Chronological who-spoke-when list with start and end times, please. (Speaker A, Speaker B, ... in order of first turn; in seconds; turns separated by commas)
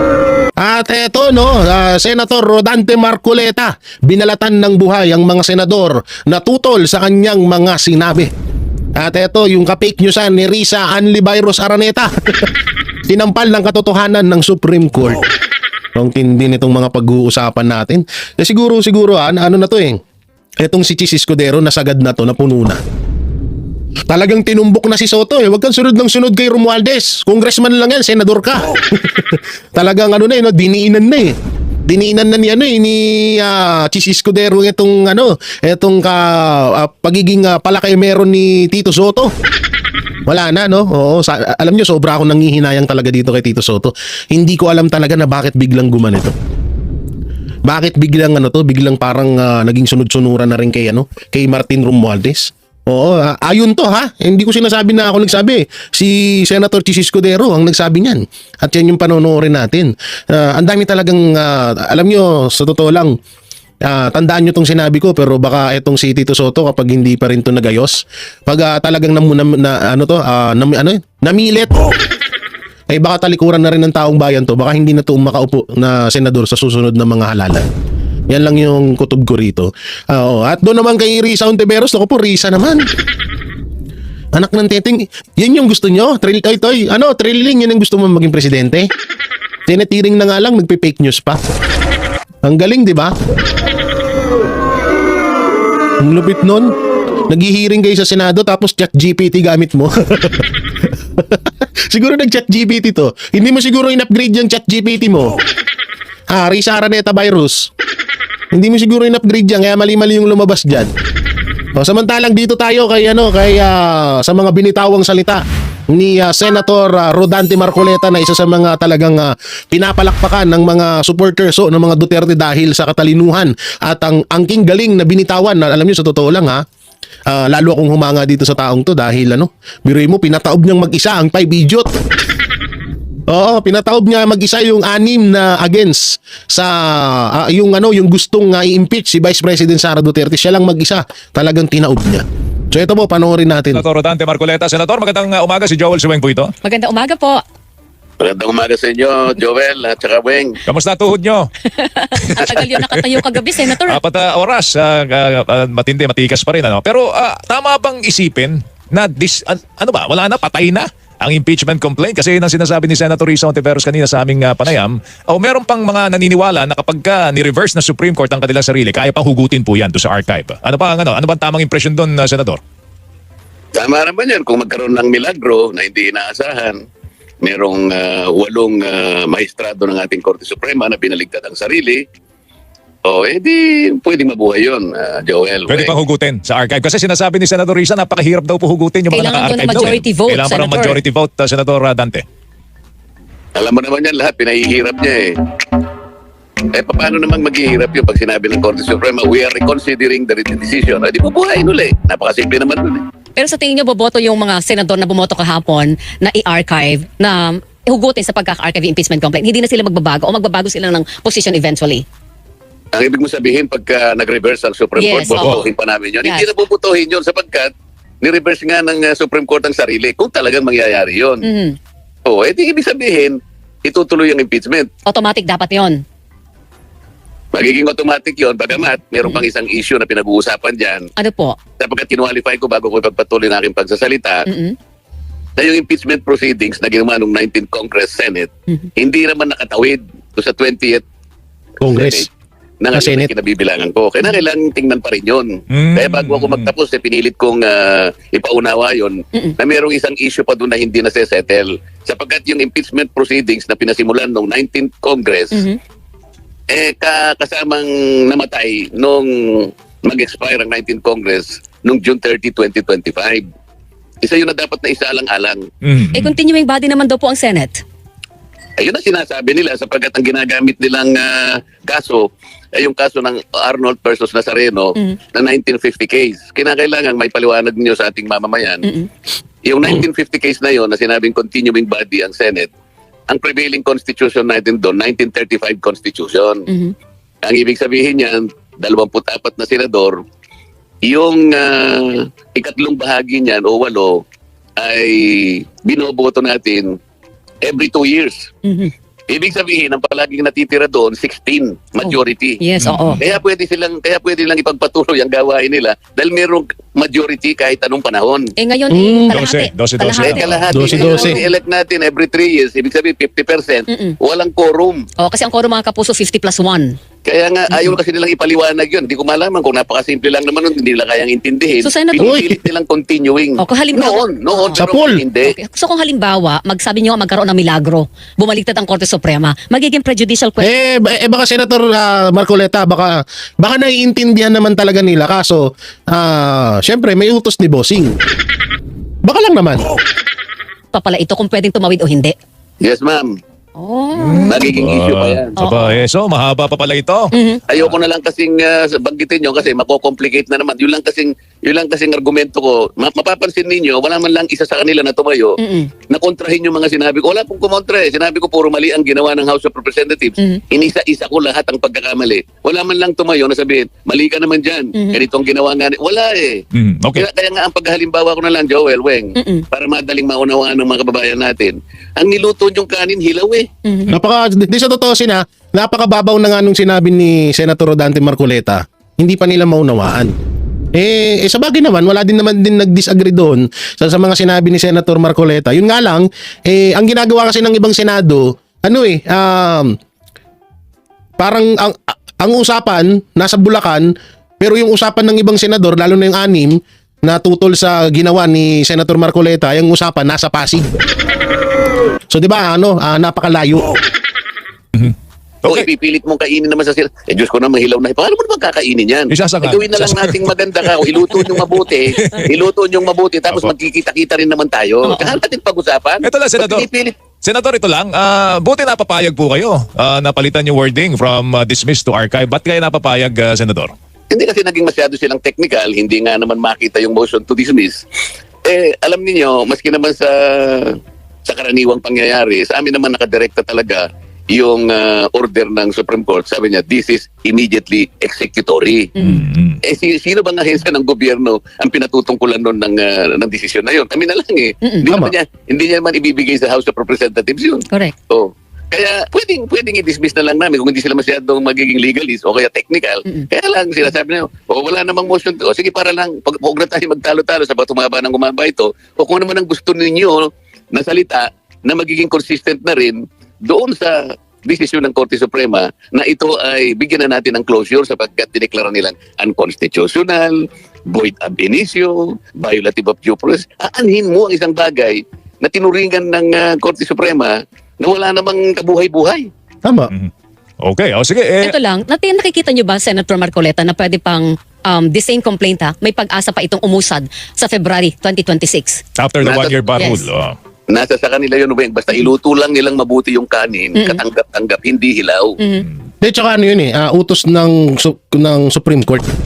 Speaker A: 0.6-8.3, Speaker A: 8.9-12.5, Speaker A: 13.1-15.2, Speaker A: 15.9-20.0, Speaker A: 20.6-22.8, Speaker A: 24.1-31.3, Speaker A: 31.9-39.3, Speaker A: 40.3-46.3, Speaker A: 47.7-63.1, Speaker A: 63.8-71.8, Speaker A: 72.9-77.7, Speaker A: 78.3-82.8, Speaker A: 84.3-88.9, Speaker A: 89.7-91.4, Speaker A: 92.4-93.1, Speaker A: 96.0-96.7, Speaker A: 97.3-100.5, Speaker A: 101.3-105.3, Speaker A: 106.3-107.7, Speaker A: 108.5-110.9, Speaker A: 111.8-126.6, Speaker A: 127.3-131.9, Speaker A: 133.3-143.8, Speaker B: 143.7-146.5, Speaker C: 146.6-147.4, Speaker D: 148.2-150.6, Speaker B: 150.7-151.5, Speaker C: 151.7-154.0, Speaker B: 152.3-172.6, Speaker D: 173.8-176.8, Speaker D: 177.4-182.0, Speaker D: 183.1-185.9, Speaker B: 185.7-192.2, Speaker C: 189.1-191.0, Speaker D: 193.6-195.3, Speaker D: 196.7-203.0, Speaker C: 203.4-212.0, Speaker D: 212.9-217.7, Speaker C: 215.0-215.6, Speaker B: 215.3-215.7, Speaker D: 218.2-221.4, Speaker C: 221.4-221.8, Speaker D: 222.3-224.9, Speaker C: 225.1-226.0, Speaker D: 227.5-231.1, Speaker C: 231.2-231.6, Speaker D: 231.8-234.4, Speaker C: 234.5-234.8, Speaker D: 235.6-241.0, Speaker A: 241.8-242.3, Speaker D: 241.9-242.3, Speaker D: 242.8-255.6, Speaker A: 242.9-243.3, Speaker B: 245.7-246.7, Speaker C: 255.5-255.8, Speaker D: 256.7-263.4, Speaker D: 264.2-265.6, Speaker B: 265.8-266.4, Speaker C: 266.1-267.8, Speaker D: 268.8-278.9, Speaker C: 278.8-279.1, Speaker D: 279.6-282.7, Speaker D: 283.3-286.7, Speaker C: 286.7-286.9, Speaker D: 287.4-290.2, Speaker D: 291.0-294.2, Speaker D: 294.8-296.9, Speaker D: 297.6-298.5, Speaker C: 298.6-298.9, Speaker D: 299.3-302.6, Speaker C: 302.0-303.2, Speaker B: 302.8-303.2, Speaker D: 303.2-308.5, Speaker C: 308.6-311.5, Speaker A: 308.9-309.3, Speaker B: 309.3-310.8, Speaker D: 310.1-315.1, Speaker A: 310.7-311.4, Speaker C: 315.2-317.0, Speaker D: 317.2-325.5, Speaker C: 321.8-322.3, Speaker A: 322.2-322.5, Speaker C: 323.6-324.8, Speaker A: 324.8-325.2, Speaker C: 325.4-330.7, Speaker A: 330.6-338.1, Speaker A: 339.2-339.8, Speaker C: 340.9-342.3, Speaker D: 342.8-343.3, Speaker C: 343.8-344.6, Speaker B: 344.2-347.9, Speaker D: 344.4-345.6, Speaker C: 345.6-346.0, Speaker C: 347.3-347.6, Speaker D: 347.7-355.6, Speaker C: 355.6-355.9, Speaker D: 356.1-366.6, Speaker B: 366.7-367.2, Speaker D: 367.1-373.7, Speaker C: 369.4-369.6, Speaker A: 374.1-380.3, Speaker A: 380.9-389.9, Speaker A: 391.4-400.9, Speaker A: 402.3-403.9, Speaker D: 405.6-417.1, Speaker B: 409.3-412.5, Speaker C: 415.0-415.4, Speaker B: 416.2-416.9, Speaker B: 417.4-423.9, Speaker D: 424.3-428.0, Speaker D: 428.6-430.9, Speaker D: 431.5-439.1, Speaker C: 439.2-439.4, Speaker B: 439.2-439.8, Speaker D: 439.8-479.5, Speaker C: 444.8-445.1, Speaker A: 479.8-480.1, Speaker B: 480.8-481.7, Speaker C: 481.6-489.0, Speaker B: 489.2-490.5, Speaker D: 489.4-489.8, Speaker C: 489.9-490.2, Speaker D: 490.9-495.6, Speaker C: 493.9-494.2, Speaker A: 496.2-499.3